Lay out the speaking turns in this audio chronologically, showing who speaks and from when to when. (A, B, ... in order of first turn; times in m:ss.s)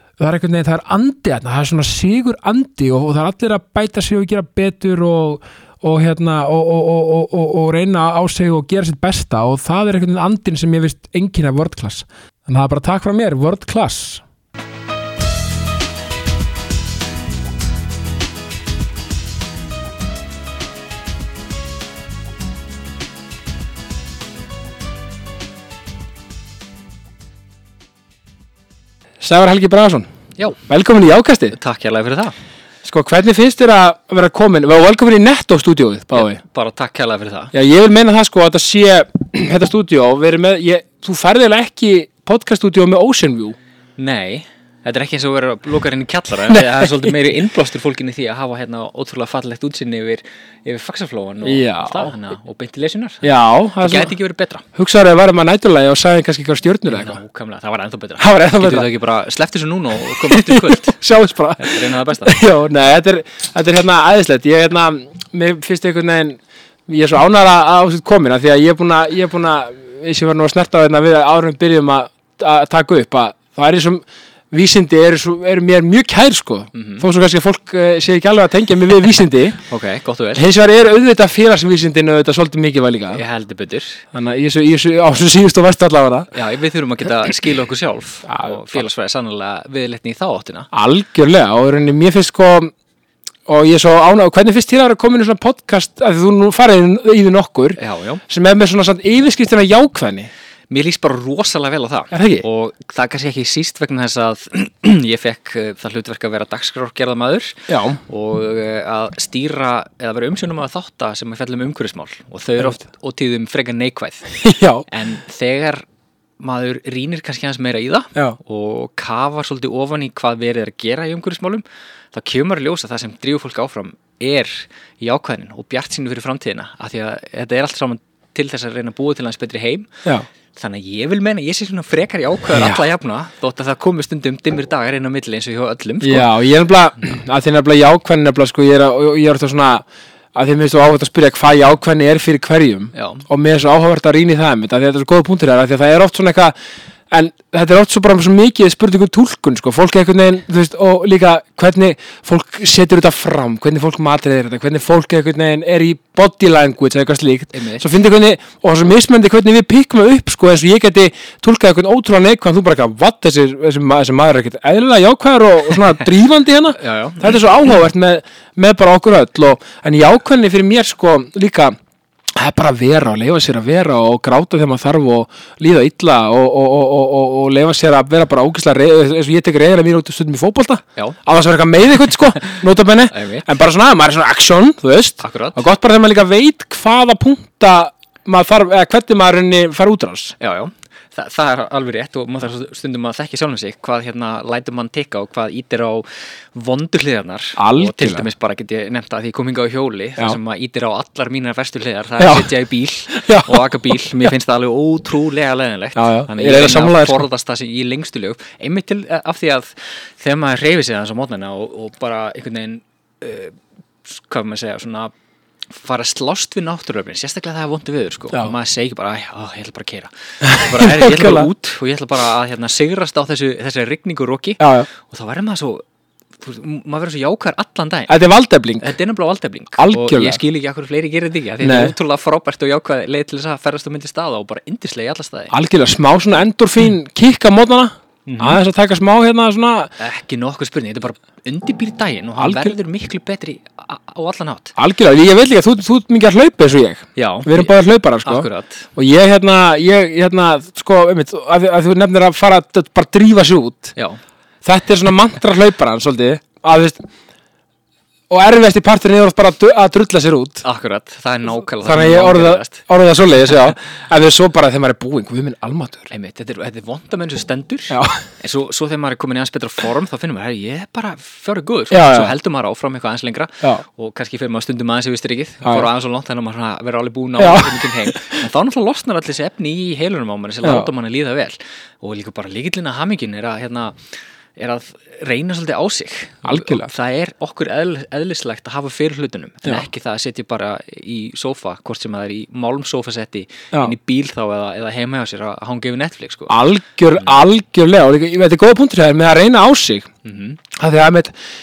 0:00.2-0:14.2 A
0:29.2-0:30.1 A
0:30.6-0:31.6 A
0:31.5-0:32.3 B
0:32.8-0:36.4 A
0:36.1-0:37.5 B
0:37.5-0:43.6 A
0:44.0-0:53.3 B
0:46.5-0:47.1 A
0:51.4-0:52.1 A
0:53.2-0:54.1 A
0:53.8-0:54.6 B
0:54.7-0:57.2 A
0:56.9-1:01.0 B
0:58.2-0:58.9 A
1:00.2-1:19.6 A
1:01.6-1:02.4 B
1:16.7-1:17.0 B
1:19.7-1:20.5 B
1:20.3-1:23.2 A
1:23.1-1:24.0 B
1:24.1-1:26.3 A
1:26.3-1:30.7 B
1:28.2-1:28.8 A
1:30.7-1:32.7 A
1:33.5-1:40.3 A
1:37.8-1:38.2 B
1:40.7-1:54.3 B
1:42.1-1:42.4 A
1:47.7-1:48.0 A
1:54.4-1:54.9 A
1:54.9-1:55.8 B
1:56.4-2:09.9 B
2:10.6-2:16.3 B
2:12.5-2:12.8 A
2:16.0-2:26.5 A
2:22.9-2:23.2 B
2:27.1-2:51.7 A
2:37.5-2:37.8 B
2:46.8-2:47.4 B
2:52.4-3:10.3 A
3:03.1-3:03.5 B
3:05.2-3:05.6 B
3:10.4-3:35.1 B
3:17.6-3:18.2 A
3:22.2-3:22.5 A
3:23.1-3:24.0 A
3:25.9-3:27.2 A
3:35.7-3:45.8 B
3:40.4-3:41.5 A
3:44.6-3:44.9 A
3:46.4-3:48.1 B
3:48.1-3:48.9 A
3:48.8-3:55.5 B
3:49.8-3:50.4 A
3:51.6-3:51.9 A
3:55.5-3:59.9 A
3:58.2-3:58.6 B
4:00.0-4:04.7 B
4:02.4-4:02.7 A
4:04.8-4:13.9 A
4:07.2-4:07.7 B
4:08.2-4:08.9 B
4:14.6-4:17.0 A
4:18.3-4:20.6 A
4:20.6-4:22.8 B
4:21.8-4:26.1 A
4:26.1-4:44.0 B
4:27.9-4:28.2 A
4:31.9-4:32.3 A
4:37.4-4:38.4 A
4:40.6-4:40.9 A
4:44.6-4:56.5 B
4:46.4-4:46.9 A
4:56.5-5:00.1 A
5:00.2-5:00.6 B
5:00.7-5:01.3 A